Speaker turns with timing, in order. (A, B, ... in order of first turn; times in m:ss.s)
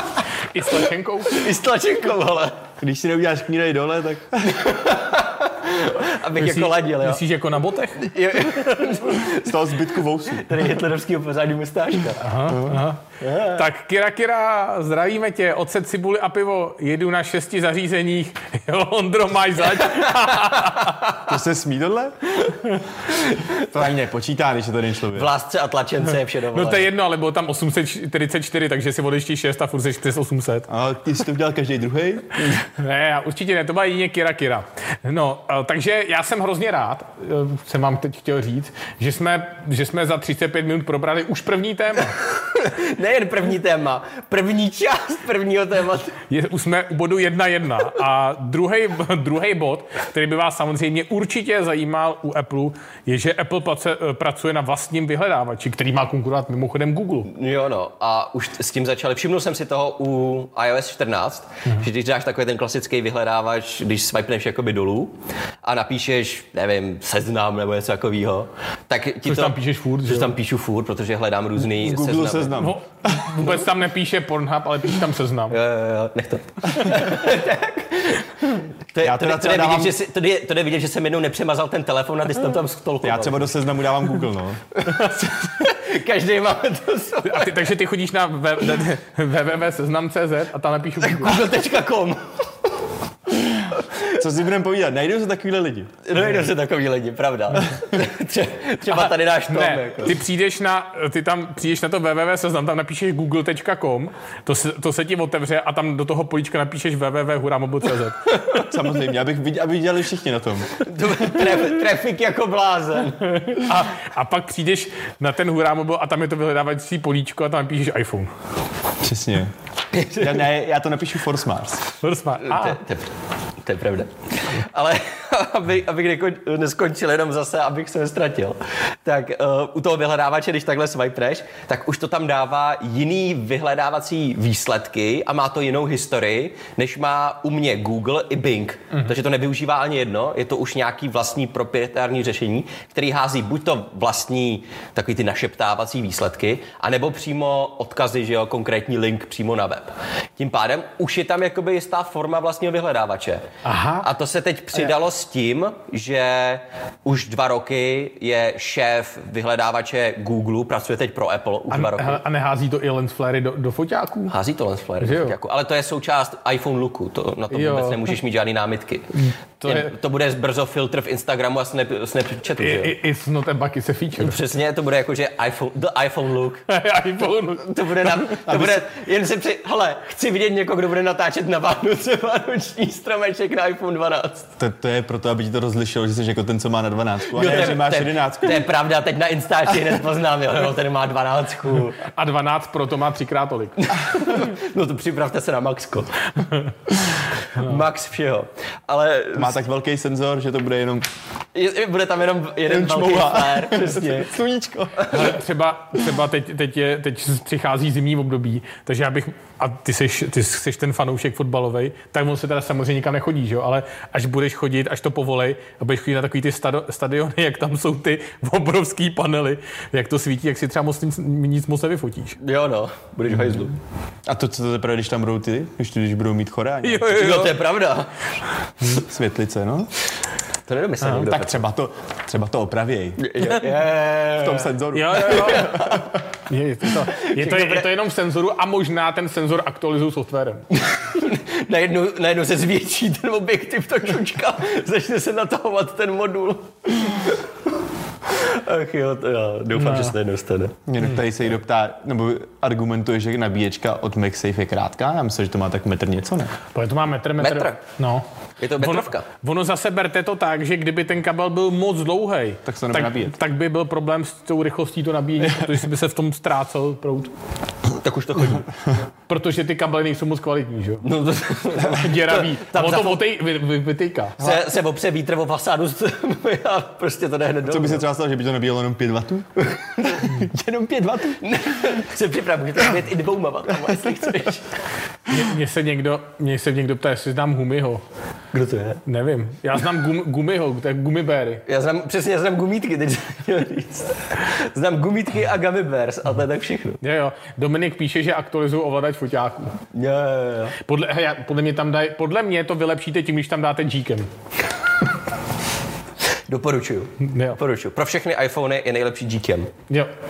0:00.5-0:01.5 A
0:01.3-0:02.6 B
0:02.8-0:04.7 C
0:04.5-0:07.2 B
0:06.4-0:08.1 A
0:08.0-0:09.6 B
0:09.2-0:10.6 C
0:10.3-0:12.2 B
0:12.2-0:21.1 A
0:12.5-0:12.8 C
0:13.2-0:13.6 B
0:19.8-0:21.2 B
0:21.2-0:22.4 C
0:23.2-0:23.5 B
0:23.6-0:25.3 C
0:25.1-0:26.9 B
0:26.5-0:30.7 A
0:30.7-0:32.5 C
0:32.5-0:42.2 A
0:42.2-0:46.2 B
0:46.3-0:57.3 A
0:57.3-1:12.6 B
1:09.2-1:10.3 A
1:11.7-1:13.4 C
1:12.6-1:15.6 A
1:15.5-1:23.5 B
1:19.0-1:19.9 C
1:23.0-1:24.8 C
1:24.8-1:27.7 B
1:27.2-1:31.4 A
1:31.0-1:32.3 B
1:33.7-1:34.1 B
1:34.1-1:35.9 C
1:36.0-1:40.2 B
1:38.9-1:48.3 A
1:48.3-1:48.7 B
1:48.5-1:50.8 C
1:50.8-1:53.4 B
1:53.3-1:58.3 A
1:59.0-1:59.5 C
1:59.9-2:00.5 B
2:00.2-2:01.9 C
2:02.0-2:02.8 A
2:02.4-2:03.1 B
2:03.6-2:33.5 B
2:33.6-2:34.1 A
2:34.0-2:42.2 B
2:41.7-2:44.3 A
2:44.3-2:52.9 B
2:45.0-2:45.3 A
2:47.5-2:48.1 A
2:49.2-2:49.9 A
2:52.6-2:54.4 A
2:54.2-2:56.6 B
2:56.7-2:58.4 A
2:57.5-3:04.5 B
2:58.5-2:58.8 C
3:04.6-3:08.6 C
3:07.3-3:12.0 B
3:12.0-3:13.9 A
3:13.8-3:16.1 B
3:17.5-3:19.6 B
3:19.4-3:21.1 C
3:21.5-3:24.3 B
3:22.7-3:25.3 C
3:25.1-3:42.4 A
3:42.4-3:43.8 B
3:44.2-3:47.4 C
3:46.8-3:47.5 A
3:47.1-3:48.1 B
3:48.9-3:49.9 C
3:50.7-3:51.6 B
3:51.0-3:51.3 A
3:51.2-3:53.2 C
3:53.2-3:56.1 B
3:54.4-3:56.0 C
3:54.9-3:55.9 A
3:56.5-4:00.6 A
3:57.0-3:57.9 B
4:00.7-4:07.5 B
4:08.3-4:10.8 B
4:09.8-4:10.1 A
4:10.9-4:16.5 C
4:16.7-4:18.2 A
4:17.4-4:17.8 B
4:18.6-4:19.2 B
4:18.8-4:27.3 A
4:22.6-4:23.3 C
4:27.9-4:28.7 B
4:29.3-4:31.1 A
4:31.0-4:33.2 B
4:31.8-4:34.4 A
4:34.4-4:38.0 B
4:37.7-4:41.5 C
4:39.7-4:40.3 B
4:41.4-4:44.7 B
4:45.3-4:48.0 A
4:48.5-4:49.0 B
4:49.0-4:51.6 A
4:51.7-4:57.0 B
4:57.0-4:59.8 A
4:59.9-5:00.7 B
5:00.8-5:04.3 A
5:06.5-5:09.7 B
5:07.2-5:07.6 A